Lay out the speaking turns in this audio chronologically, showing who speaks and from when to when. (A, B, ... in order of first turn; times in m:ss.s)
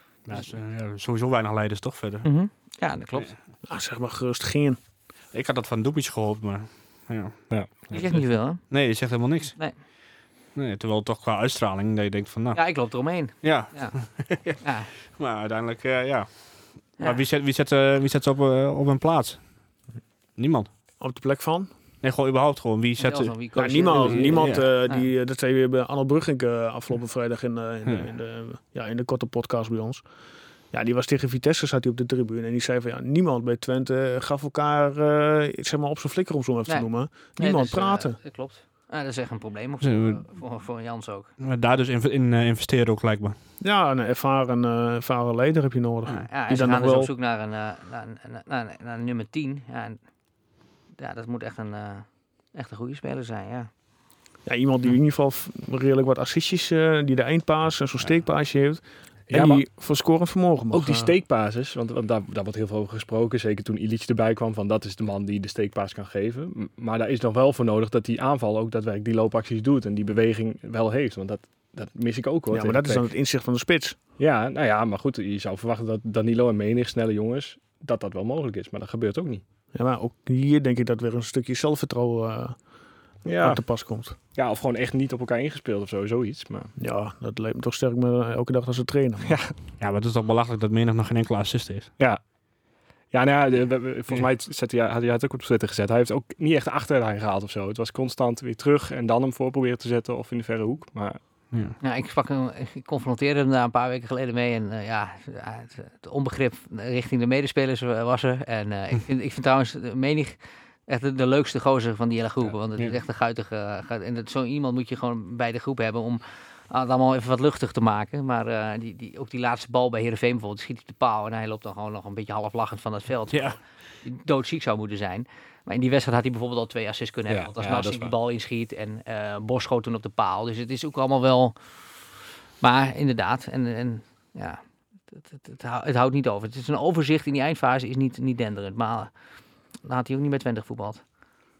0:00.2-0:02.3 A
0:02.2-0:03.3 B
0:03.6-0:04.8 C
0:05.3-0:09.8 A
0:07.5-0:08.2 D
0:07.9-0:09.8 B
0:10.5-0:19.8 A
0:12.5-0:14.9 B
0:20.4-0:20.7 A
0:21.0-0:21.7 C
0:22.0-0:24.7 A
0:23.0-0:25.0 B
0:23.5-0:30.0 C
0:30.7-0:38.2 C
0:36.7-0:41.3 B
0:39.8-0:40.2 A
0:41.4-0:43.4 A
0:43.6-0:47.1 C
0:46.1-0:50.0 B
0:51.0-0:53.7 B
0:54.4-1:01.1 C
0:59.3-0:59.6 D
1:00.7-1:13.1 D
1:12.5-1:14.0 C
1:14.2-1:19.4 D
1:19.7-1:22.7 C
1:23.2-1:26.7 D
1:23.3-1:24.2 C
1:26.8-1:29.4 C
1:29.2-1:29.5 D
1:29.8-1:31.9 A
1:33.1-1:41.2 D
1:41.8-2:19.1 B
1:52.4-1:53.0 D
2:03.3-2:03.6 A
2:07.3-2:08.1 D
2:19.7-2:21.0 B